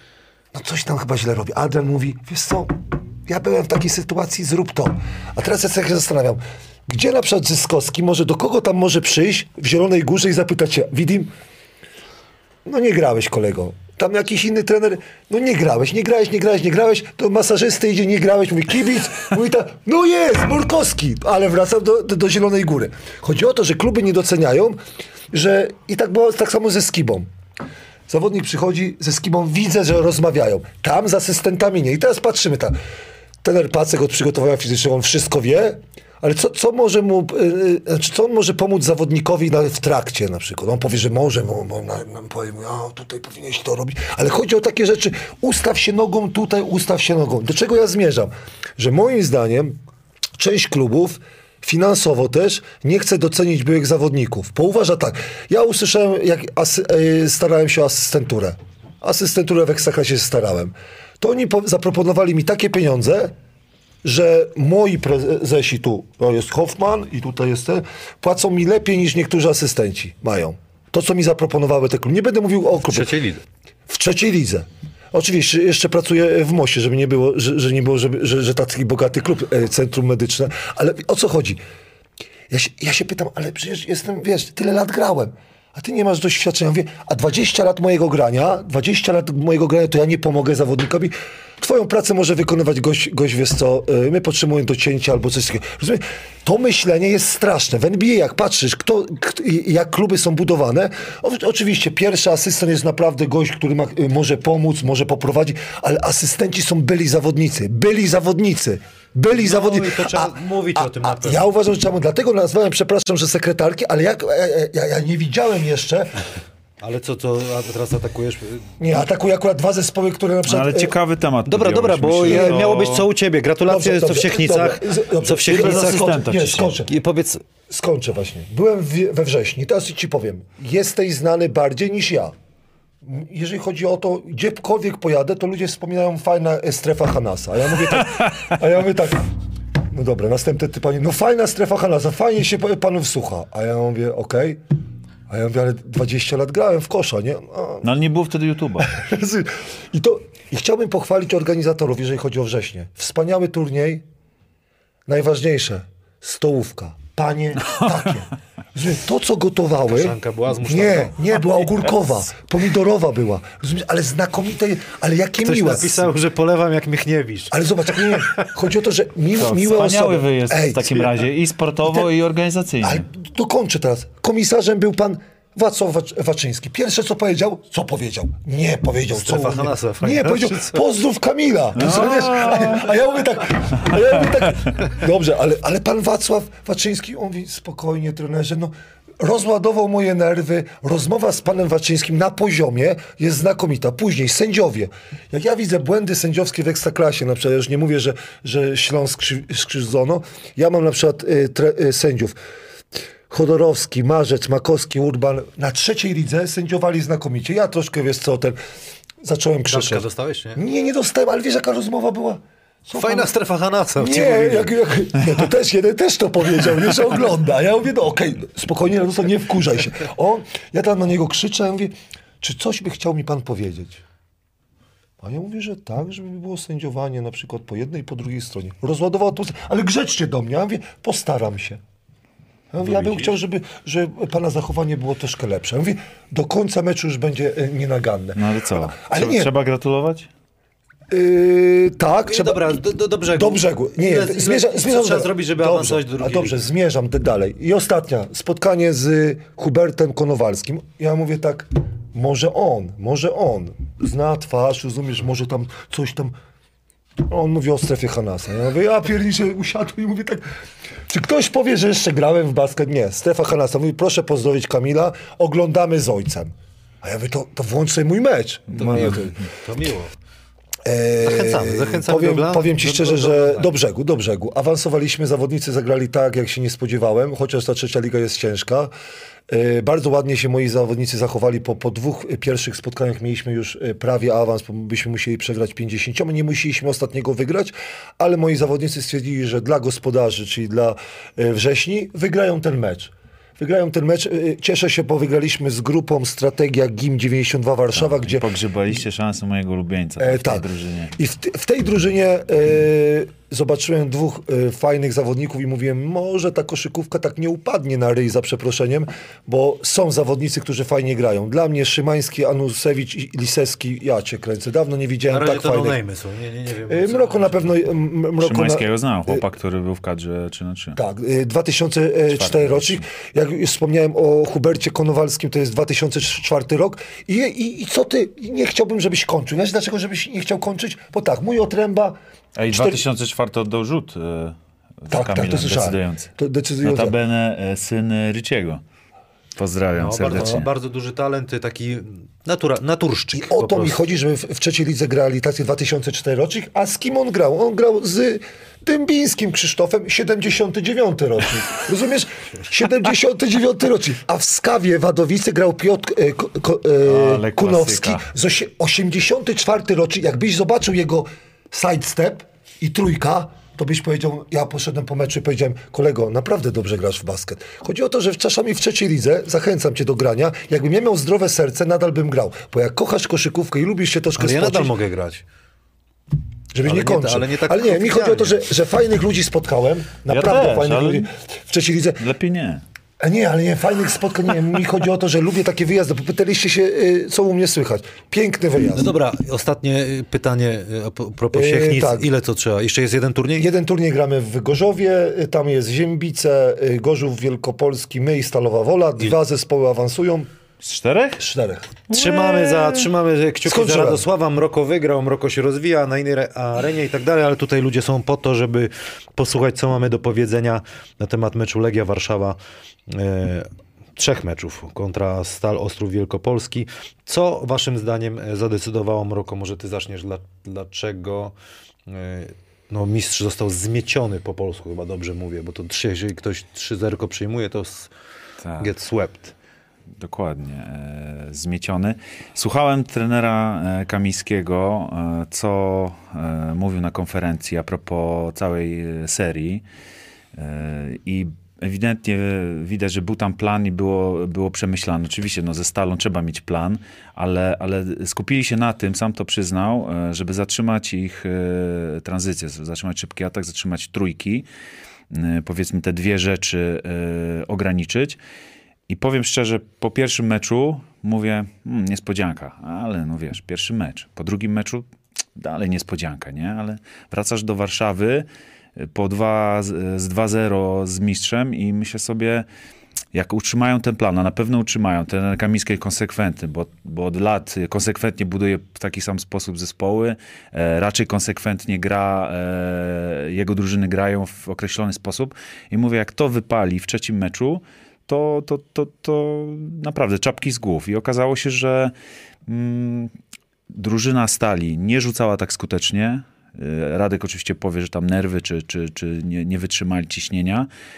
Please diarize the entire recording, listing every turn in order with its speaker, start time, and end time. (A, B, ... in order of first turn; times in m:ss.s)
0:00.5-0:11.3 A
0:12.6-0:24.8 A
0:25.3-0:27.3 A
0:28.1-0:32.8 A
0:33.4-0:49.8 A
0:50.4-1:03.3 A
1:04.0-1:13.1 A
1:12.9-1:13.4 B
1:13.9-1:21.6 A
1:22.5-1:56.2 A
1:49.3-1:51.4 B
1:56.8-1:58.8 B
1:58.8-2:00.9 A
2:00.4-2:03.1 C
2:01.5-2:07.4 B
2:02.2-2:02.7 A
2:03.7-2:06.9 A
2:05.4-2:06.8 C
2:07.7-2:12.3 A
2:13.0-2:19.3 A
2:19.8-2:24.6 A
2:25.3-2:27.9 A
2:27.8-2:28.9 C
2:28.8-2:34.0 A
2:35.1-2:46.1 A
2:39.8-2:41.4 B
2:45.4-2:47.6 B
2:47.5-2:51.3 A
2:49.4-2:53.0 C
2:52.8-3:22.4 A
2:59.1-3:00.8 B
3:01.8-3:02.9 C
3:23.3-3:28.6 A
3:29.2-3:33.3 A
3:29.7-3:30.6 B
3:32.9-3:34.7 B
3:34.0-3:44.0 A
3:45.2-3:51.8 A
3:52.7-3:59.5 A
3:52.8-3:53.3 C
3:58.4-4:00.3 C
4:01.1-4:02.8 A
4:02.2-4:06.6 B
4:03.4-4:16.4 A
4:17.2-4:20.4 A
4:21.1-4:29.4 A
4:28.7-4:30.1 B
4:30.8-4:38.9 A
4:31.2-4:33.7 B
4:39.5-4:58.5 A
4:57.9-5:01.1 C
5:00.2-5:16.0 A
5:15.3-5:17.8 B
5:16.9-5:19.4 A
5:18.4-5:21.0 C
5:20.9-5:32.2 A
5:22.3-5:23.0 C
5:32.6-5:36.3 C
5:32.7-5:33.0 A
5:35.1-5:37.1 A
5:36.8-5:38.8 C
5:39.6-5:40.7 C
5:39.9-5:44.0 B
5:43.3-6:14.9 A
5:57.0-5:58.2 C
6:14.4-6:15.4 B
6:16.7-6:22.2 A
6:16.8-6:18.6 B
6:20.3-6:21.3 C
6:22.2-6:22.8 C
6:23.2-6:29.1 A
6:28.9-6:33.7 B
6:31.5-6:32.3 A
6:33.6-6:40.5 A
6:40.8-6:41.4 C
6:41.4-6:41.9 A
6:42.1-6:43.1 C
6:42.1-6:52.6 B
6:43.6-6:44.2 A
6:53.1-7:01.5 B
7:02.1-7:08.1 B
7:08.6-7:08.9 C
7:08.8-7:09.5 B
7:10.2-7:19.8 C
7:20.5-7:34.7 C
7:35.3-7:38.4 C
7:39.1-7:52.7 C
7:53.3-8:12.1 C
8:12.6-8:13.3 C
8:13.9-8:20.9 C